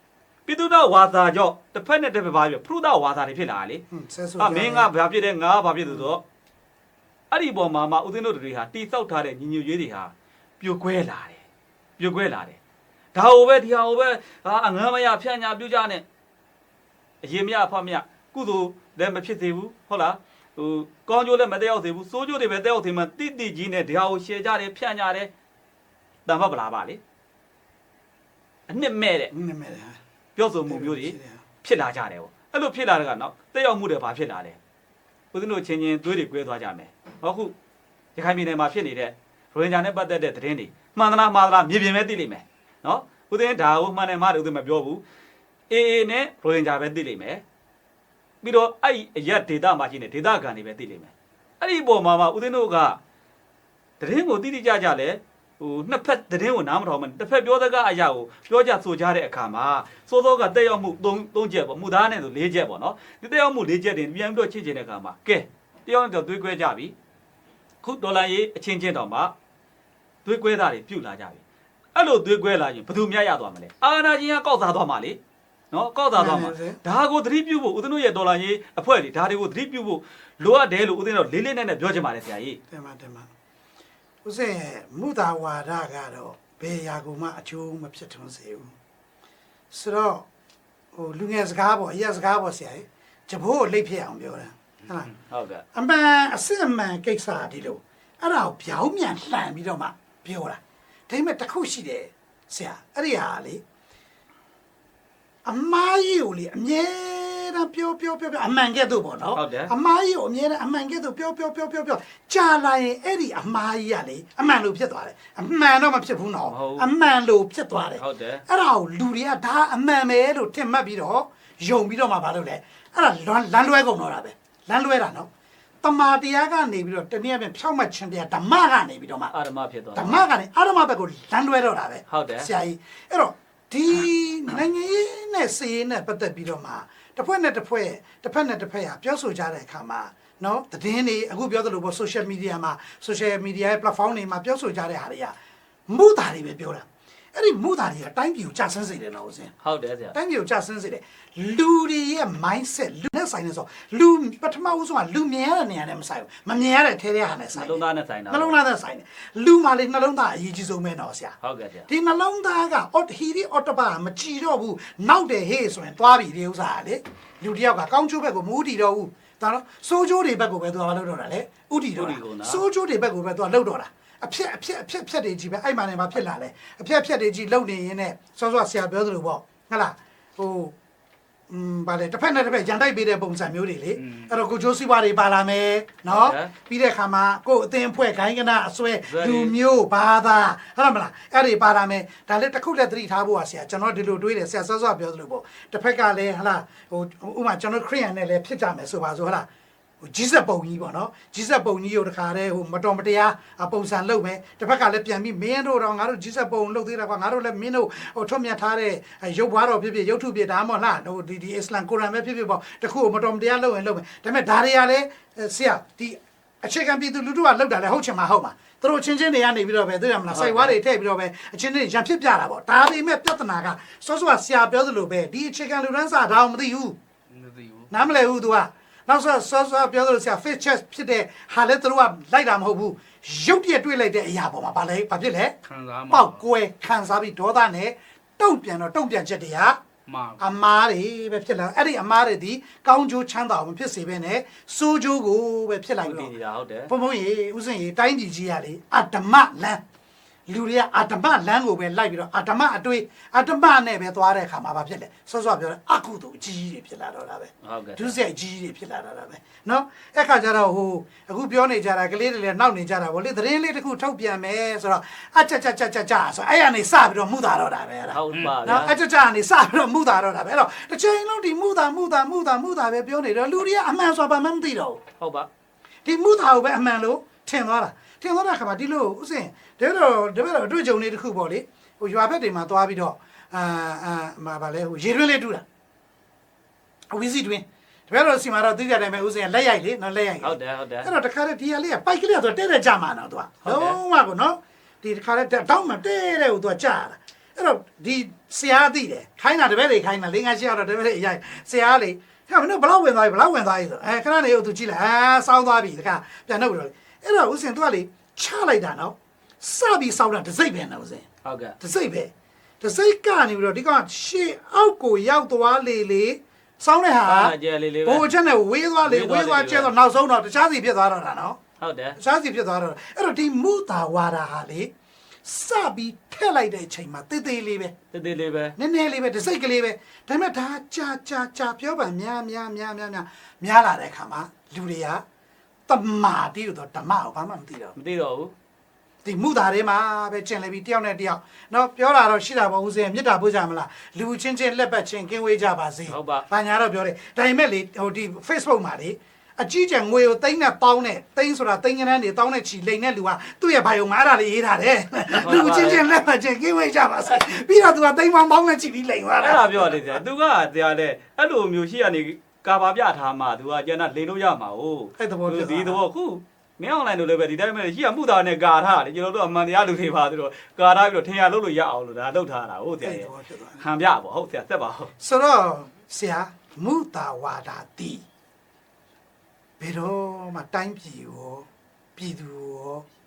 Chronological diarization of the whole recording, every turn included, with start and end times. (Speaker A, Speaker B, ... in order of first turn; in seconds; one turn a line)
Speaker A: 0.5-3.8
Speaker B: 3.9-4.9
Speaker A: 4.4-6.2
Speaker B: 5.8-6.1
Speaker A: 7.3-11.4
Speaker A: 12.0-12.6
Speaker A: 13.1-16.0
Speaker A: 17.2-25.3
Speaker A: 26.2-27.0
Speaker A: 28.7-29.3
Speaker B: 29.3-30.0
Speaker A: 30.4-34.6
Speaker B: 30.7-31.4
Speaker A: 35.3-37.5
Speaker A: 38.1-45.0
Speaker A: 45.7-47.4
Speaker A: 48.4-53.0
Speaker A: 54.0-66.9
Speaker A: 67.8-69.3
Speaker A: 70.2-71.4
Speaker A: 71.9-75.2
Speaker A: 75.7-82.6
Speaker B: 76.1-76.8
Speaker B: 82.7-83.3
Speaker B: 84.2-88.7
Speaker B: 89.7-90.2
Speaker B: 90.9-95.1
Speaker A: 95.3-95.6
Speaker B: 95.7-103.6
Speaker B: 105.4-125.3
Speaker A: 109.3-109.7
Speaker A: 116.4-116.9
Speaker A: 118.0-118.4
Speaker B: 125.8-129.3
Speaker A: 129.3-130.2
Speaker B: 129.9-145.3
Speaker A: 132.1-132.5
Speaker B: 145.9-149.5
Speaker A: 149.6-150.1
Speaker B: 150.1-161.3
Speaker A: 157.5-158.6
Speaker A: 161.4-161.9
Speaker B: 161.9-180.7
Speaker A: 171.9-172.6
Speaker B: 181.5-199.5
Speaker C: 183.9-184.3
Speaker A: 186.1-186.5
Speaker A: 189.1-189.6
Speaker B: 200.0-227.0
Speaker A: 220.3-220.8
Speaker C: 227.3-227.9
Speaker B: 227.9-235.5
Speaker C: 235.7-236.4
Speaker B: 236.1-239.8
Speaker C: 240.1-240.4
Speaker B: 240.4-246.3
Speaker A: 246.0-246.9
Speaker B: 246.9-249.8
Speaker B: 250.5-275.0
Speaker A: 257.6-258.1
Speaker A: 268.1-268.9
Speaker C: 268.3-268.6
Speaker A: 275.2-275.5
Speaker B: 276.0-285.6
Speaker B: 287.1-311.2
Speaker A: 290.4-291.1
Speaker A: 293.6-294.0
Speaker A: 311.4-311.7
Speaker B: 311.8-321.6
Speaker A: 317.2-318.3
Speaker A: 319.0-319.9
Speaker A: 321.8-322.2
Speaker B: 322.2-324.9
Speaker B: 325.4-327.9
Speaker A: 328.1-328.8
Speaker B: 328.8-335.2
Speaker B: 335.9-337.9
Speaker A: 338.0-338.5
Speaker B: 339.2-360.2
Speaker A: 346.1-346.5
Speaker A: 355.3-356.0
Speaker A: 359.4-375.1
Speaker B: 365.2-366.0
Speaker B: 373.0-373.8
Speaker B: 375.2-378.2
Speaker B: 379.8-383.0